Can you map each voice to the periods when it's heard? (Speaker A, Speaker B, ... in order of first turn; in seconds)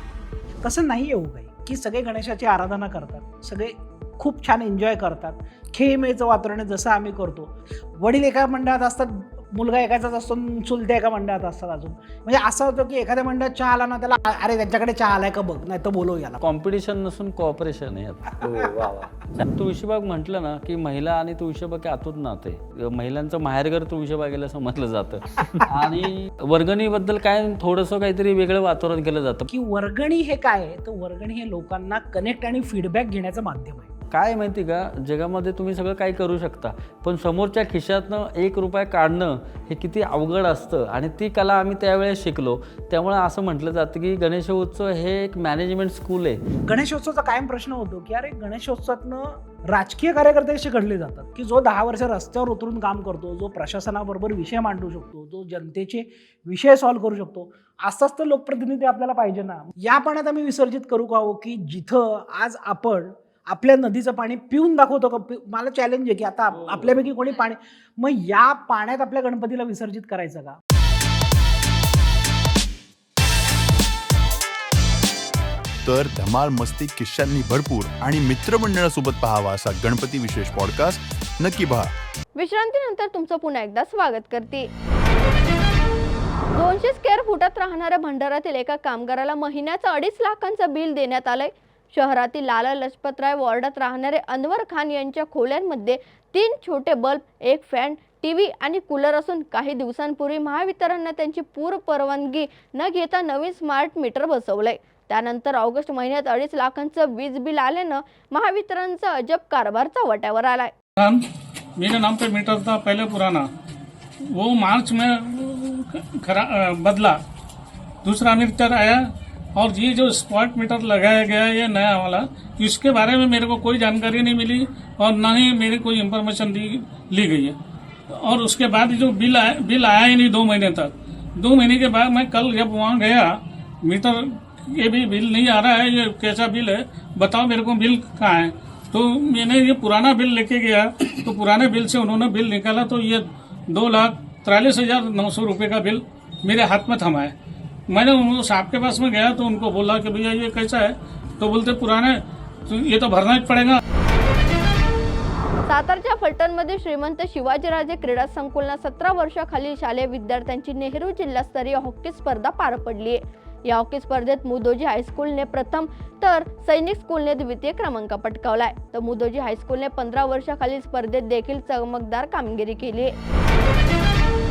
Speaker A: 0.6-16.4, 29.5-33.9, 46.7-70.6
Speaker B: 16.4-29.5, 34.1-46.4
Speaker C: 75.8-81.9
Speaker D: 82.4-84.7, 86.5-110.7, 155.7-173.1
Speaker E: 111.0-111.2, 111.8-113.5, 114.3-117.2, 118.0-127.6, 128.1-147.3, 147.9-153.8